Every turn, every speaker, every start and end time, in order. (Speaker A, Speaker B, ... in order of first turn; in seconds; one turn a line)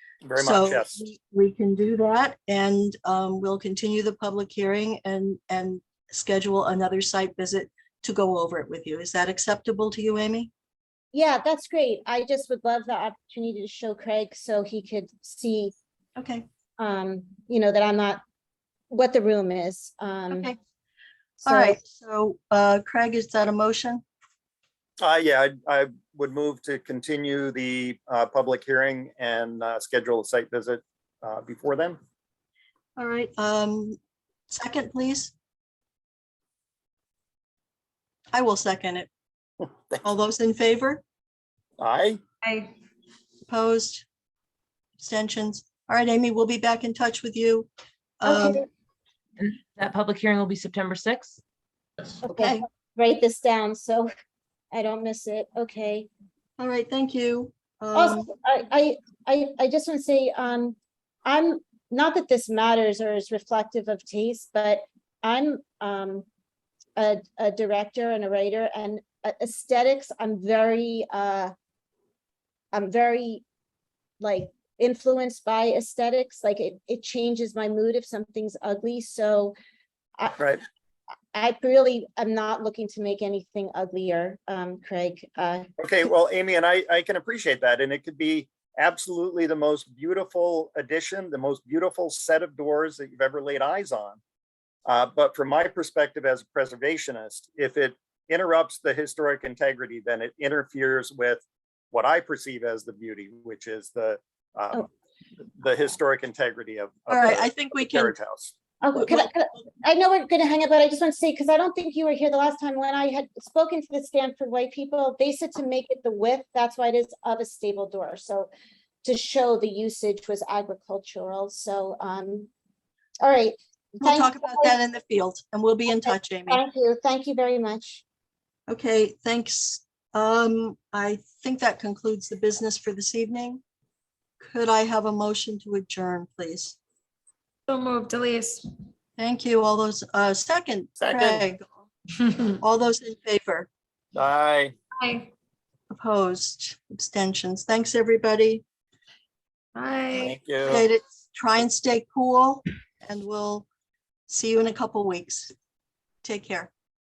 Speaker A: 0.2-1.0
Speaker B: 0.3-10.5
Speaker C: 11.1-15.7
Speaker B: 16.2-16.4
Speaker C: 16.8-18.2
Speaker C: 18.9-20.5
Speaker B: 20.3-20.6
Speaker B: 21.4-24.0
Speaker C: 21.4-21.8
Speaker A: 25.0-32.0
Speaker B: 33.0-34.0
Speaker B: 34.5-35.3
Speaker B: 38.3-39.1
Speaker B: 40.0-41.0
Speaker A: 41.8-42.2
Speaker D: 42.4-42.7
Speaker B: 43.5-44.0
Speaker B: 45.0-47.7
Speaker B: 48.2-48.6
Speaker C: 48.2-48.6
Speaker E: 49.4-51.4
Speaker B: 52.2-52.6
Speaker C: 52.3-54.1
Speaker C: 54.7-56.1
Speaker B: 56.6-58.3
Speaker C: 57.9-66.2
Speaker C: 67.0-71.5
Speaker C: 72.7-73.4
Speaker C: 74.2-79.5
Speaker C: 81.3-85.7
Speaker A: 85.8-94.2
Speaker A: 94.8-104.9
Speaker A: 105.6-108.5
Speaker B: 107.1-108.1
Speaker C: 108.8-118.5
Speaker B: 109.0-109.3
Speaker C: 119.0-122.5
Speaker C: 123.2-124.7
Speaker B: 124.0-126.6
Speaker C: 126.0-128.0
Speaker B: 128.7-133.6
Speaker B: 134.4-136.8
Speaker D: 137.7-138.7
Speaker B: 139.2-141.7
Speaker A: 141.0-141.4
Speaker B: 142.6-143.7
Speaker A: 144.1-144.7
Speaker D: 145.0-145.3
Speaker B: 145.9-148.6
Speaker D: 149.7-150.3
Speaker A: 150.1-150.8
Speaker B: 150.7-153.7
Speaker B: 154.3-155.5
Speaker B: 156.2-156.7